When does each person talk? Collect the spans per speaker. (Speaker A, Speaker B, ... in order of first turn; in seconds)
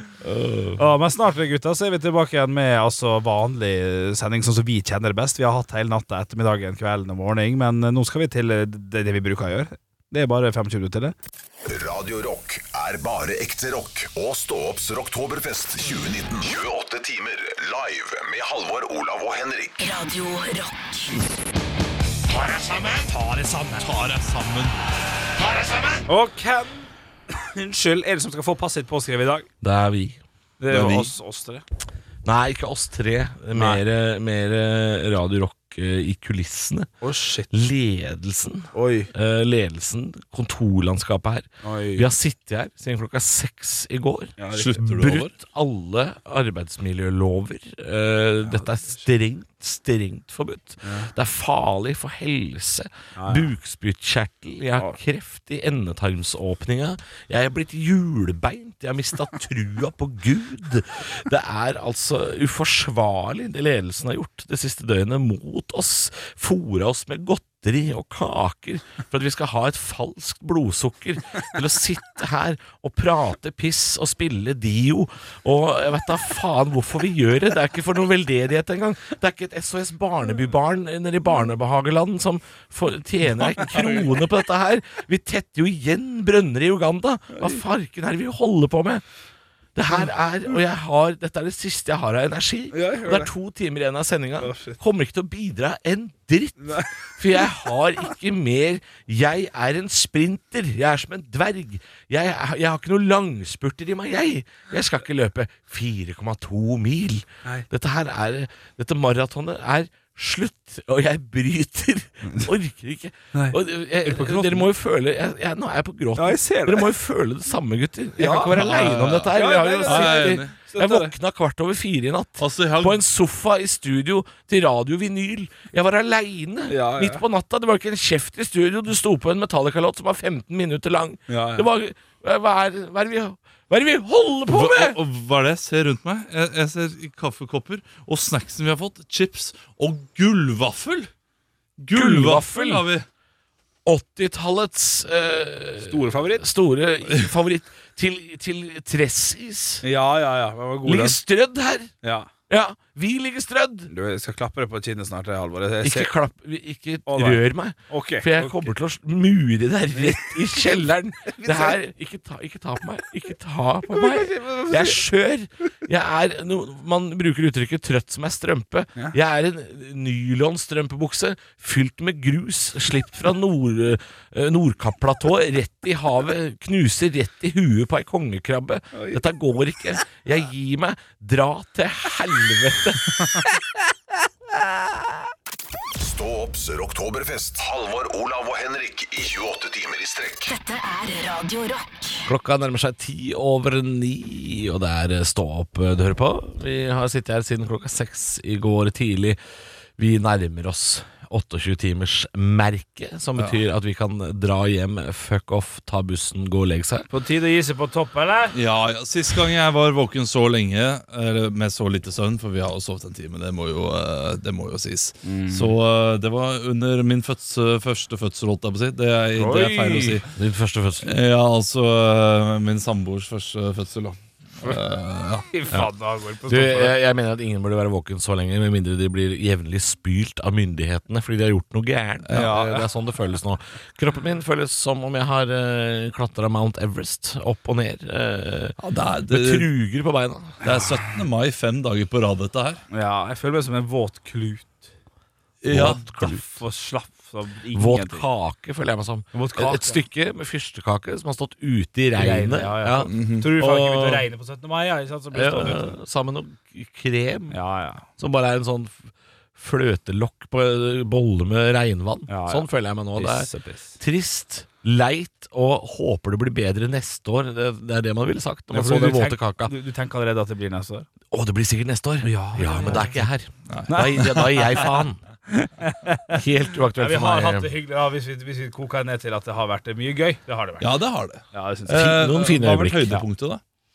Speaker A: 0.2-0.8, 22.4-23.1, 25.4-26.0, 29.6-30.2, 32.2-36.9, 37.5-89.0, 89.8-135.0, 141.9-142.8, 143.8-149.8, 150.8-151.9, 152.5-153.9, 155.8-183.2, 192.2-199.4, 200.0-207.1, 220.3-221.1, 226.5-238.8, 239.3-240.6, 245.7-246.6, 247.7-254.2, 255.3-257.6, 258.2-269.7, 271.3-275.2, 276.3-277.7, 281.9-283.2
Speaker B: 0.8-11.1, 23.1-24.2, 26.1-29.5, 30.6-31.6, 33.5-33.8, 37.0-37.5, 38.7-39.1, 41.6-42.1, 44.4-44.8, 48.5-49.0, 50.8-51.1, 53.1-53.5, 83.4-84.0, 87.3-87.6, 92.7-93.3, 94.4-94.8, 96.6-97.5, 113.3-114.7, 116.2-116.9, 118.2-121.1, 126.7-127.2, 131.3-131.6, 145.8-146.4, 149.8-151.2, 152.0-152.3, 153.9-156.1, 157.1-158.7, 159.9-160.7, 161.3-161.8, 163.9-165.0, 178.9-179.2, 207.1-208.5, 215.2-215.7, 219.3-220.2, 225.5-227.0, 232.3-232.8, 242.9-244.9, 245.8-248.2, 249.3-250.0, 252.2-255.9, 257.5-258.0, 262.3-264.0, 268.7-271.1, 272.2-273.2, 273.9-274.9, 275.5-276.4, 276.9-280.9, 281.5-282.1
Speaker C: 11.7-19.8, 186.0-190.5
Speaker D: 19.8-21.2, 190.4-192.2
Speaker E: 23.8-24.8, 30.7-31.1, 44.5-45.3, 118.5-120.5, 122.4-123.0, 134.5-141.1, 141.8-143.1, 208.5-220.2, 221.0-225.5, 232.3-232.6, 238.8-239.7, 240.6-242.8, 245.6-246.0, 253.1-253.5, 273.7-274.1, 280.8-283.6